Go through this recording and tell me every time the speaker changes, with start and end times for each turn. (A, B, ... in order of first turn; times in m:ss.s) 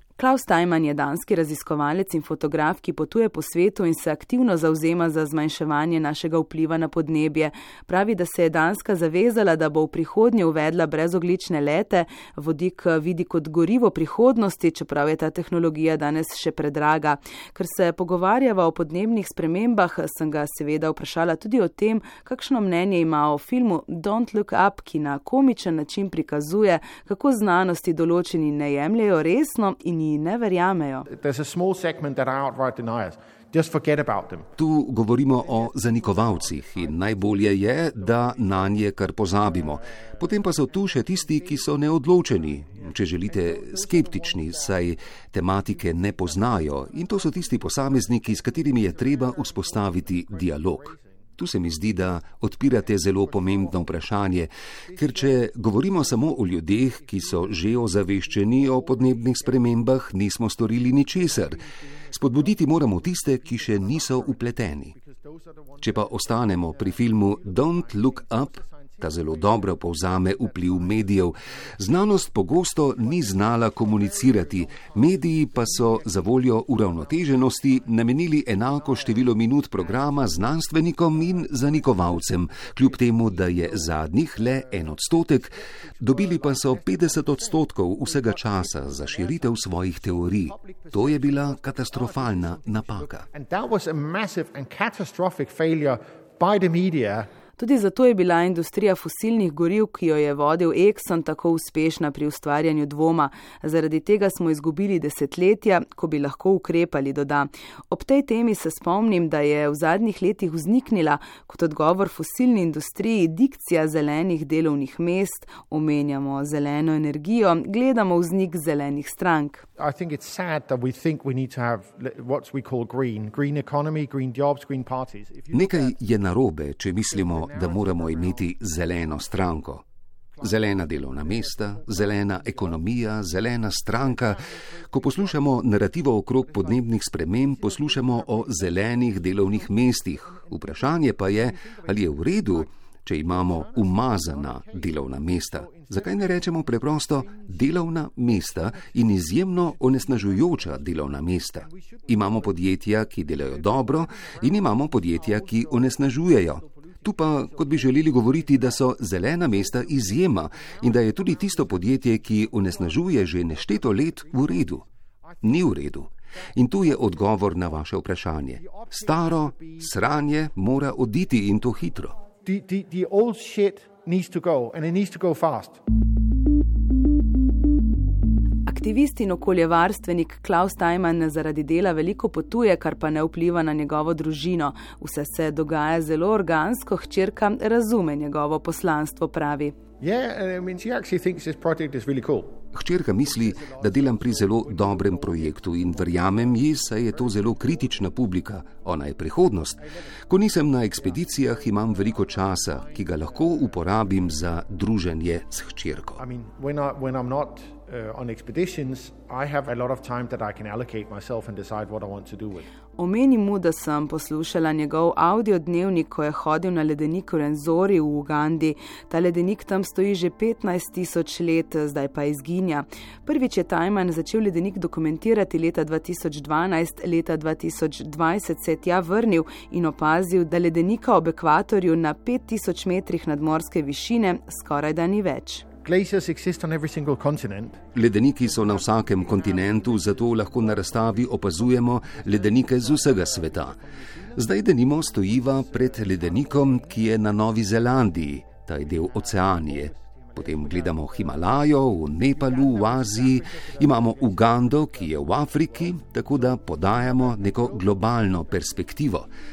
0:00.2-0:31.1 A
0:31.1-0:34.5 B
0:34.6-1:04.9 C
0:35.3-0:44.9 B
0:45.6-1:00.0 B
1:00.6-1:37.3 B
1:05.8-1:33.2 C
1:37.6-1:59.6 A
1:59.8-2:06.0 B
2:05.5-2:09.8 C
2:07.1-2:09.4 B
2:10.4-2:47.8 B
2:10.4-2:44.8 C
2:45.4-2:52.2 C
2:48.5-2:50.2 B
2:52.4-2:55.8 B
2:58.6-3:09.8 A
3:10.0-3:18.3 B
3:12.7-3:26.2 C
3:19.8-3:24.4 B
3:26.2-3:32.7 B
3:33.0-3:55.6 A
3:55.8-3:57.8 B
3:57.9-4:03.8 C
3:58.4-4:07.3 B
4:04.4-4:19.3 C
4:08.7-4:19.0 B